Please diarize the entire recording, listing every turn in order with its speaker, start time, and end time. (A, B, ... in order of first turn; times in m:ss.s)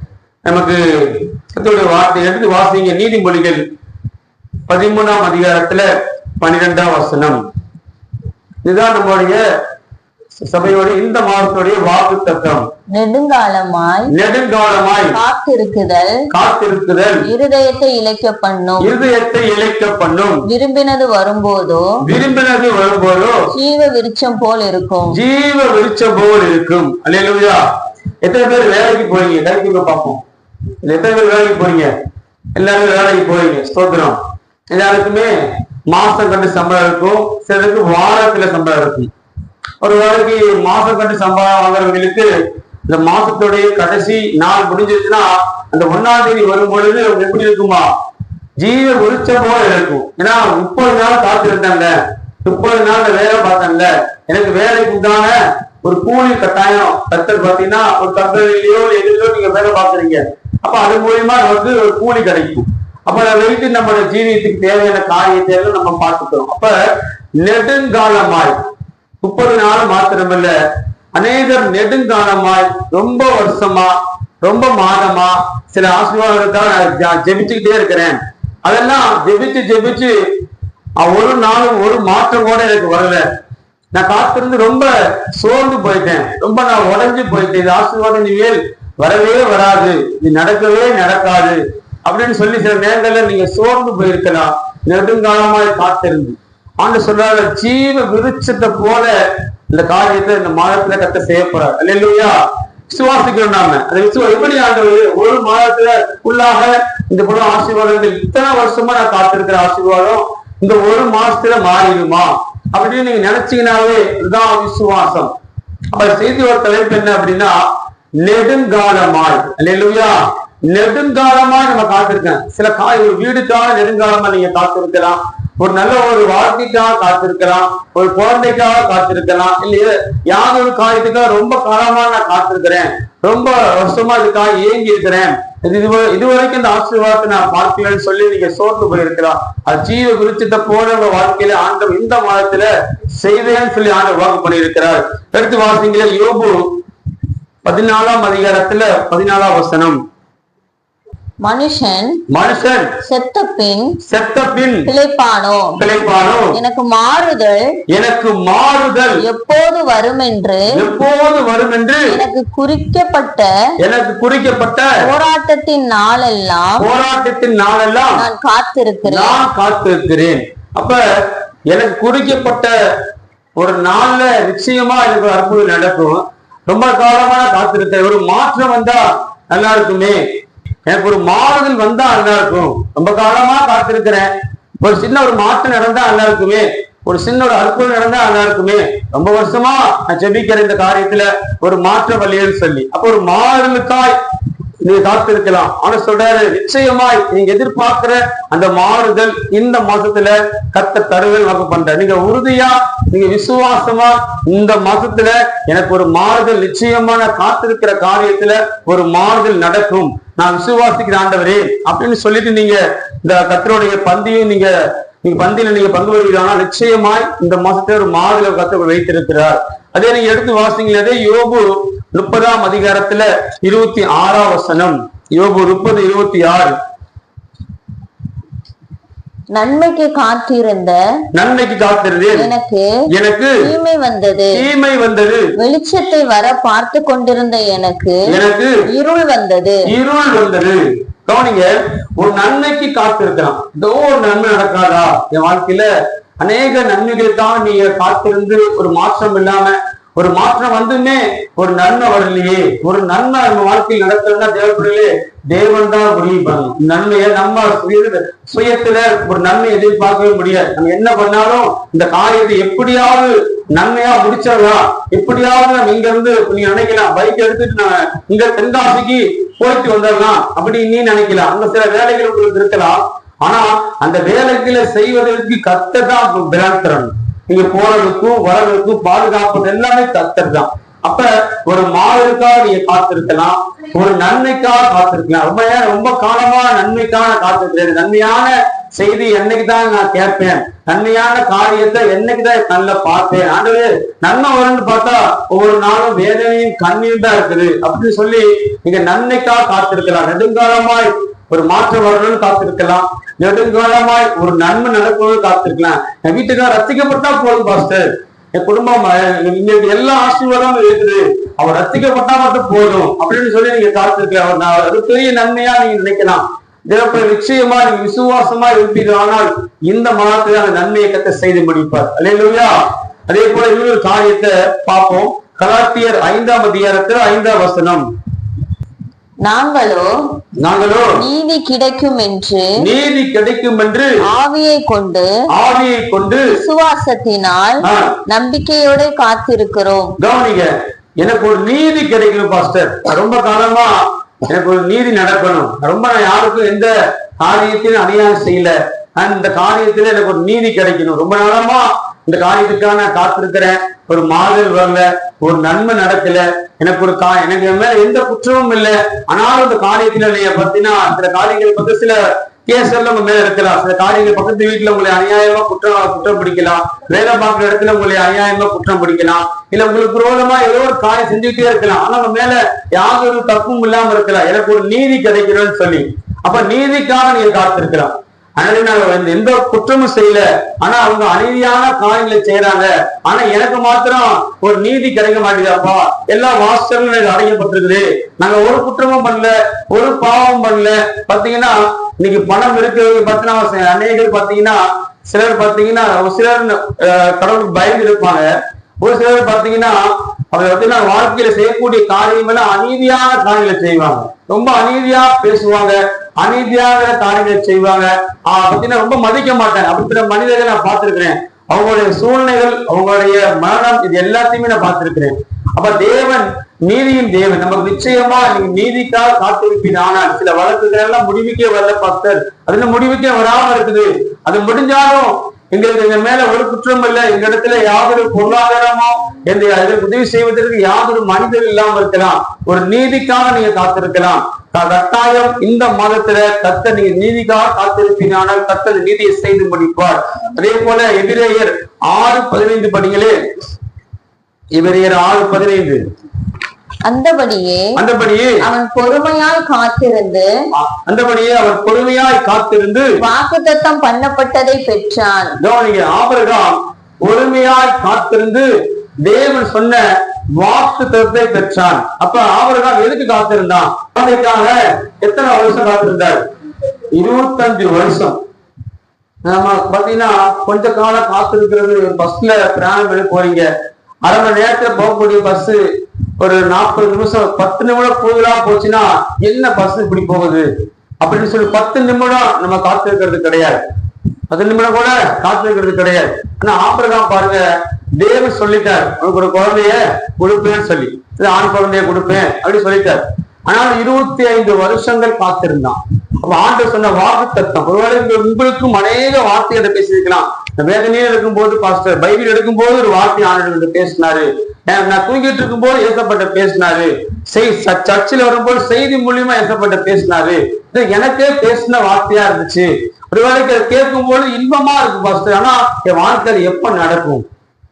0:00.4-0:03.6 A
0:04.7-0:05.9 A
0:06.4-0:07.4 A
0:08.6-0:09.4 A
0:10.3-0:12.7 A
0:12.9-0:14.1 B
0:14.1-0:15.2 A
0:15.1-0:16.2 B
0:16.3-0:17.2 A
0:17.2-0:18.9 B
0:18.8-0:20.4 A
0:20.5-0:22.0 B
0:22.0-0:23.4 A
0:23.5-0:25.2 B
0:25.1-0:27.6 A
0:28.2-0:30.2 A
0:30.8-0:31.9 A
0:32.6-0:34.2 A
0:34.7-0:35.3 A
0:35.9-0:39.1 A
0:39.8-0:42.3 A
0:42.9-0:47.9 A
0:48.6-1:06.8 A
1:07.4-1:08.6 A
1:09.2-1:10.5 A
1:11.1-1:20.2 A
1:21.0-1:23.2 A
1:23.9-1:39.1 A
1:39.7-1:55.3 A
1:55.9-1:57.6 A
1:58.2-2:26.6 A
2:27.6-2:30.0 A
2:31.4-2:32.2 B
2:32.3-2:33.0 A
2:33.0-2:34.0 B
2:34.0-2:34.9 A
2:34.8-2:35.8 B
2:35.8-2:36.5 A
2:36.5-2:37.6 B
2:37.9-2:39.2 A
2:39.2-2:40.8 B
2:40.7-2:42.2 A
2:42.1-2:43.5 B
2:43.8-2:45.0 A
2:45.0-2:46.9 B
2:46.8-2:48.2 A
2:48.2-2:49.4 B
2:49.0-2:51.0 A
2:51.7-2:52.7 A
2:53.6-3:00.2 A
3:00.8-3:14.2 A
3:14.8-3:46.8 A
3:49.5-3:51.0 B
3:51.3-3:52.5 A
3:52.4-3:52.9 B
3:53.1-3:53.7 A
3:53.6-3:54.6 B
3:54.5-3:55.5 A
3:55.6-3:58.3 B
3:58.3-3:58.9 A
3:58.9-3:59.8 B
3:59.8-4:05.9 A
4:06.4-5:28.1 A
5:29.4-5:30.1 B
5:30.6-5:31.2 A
5:31.2-5:32.8 B
5:32.8-5:34.1 A
5:34.2-5:35.3 B
5:35.5-5:36.6 A
5:36.5-5:40.1 B
5:37.8-5:38.1 A
5:40.2-6:38.5 A
6:39.0-7:23.4 A
7:24.7-7:26.0 A
7:27.0-7:27.9 B
7:28.0-7:28.6 A
7:28.6-7:30.5 B
7:30.7-7:33.2 A
7:33.2-7:35.6 B
7:35.6-7:38.7 A
7:39.2-7:46.4 A
7:47.1-7:48.4 A
7:49.4-7:53.7 A
7:54.2-7:55.8 A
7:56.4-8:00.7 A
8:01.2-8:03.8 A
8:04.5-8:07.6 A
8:08.2-8:37.4 A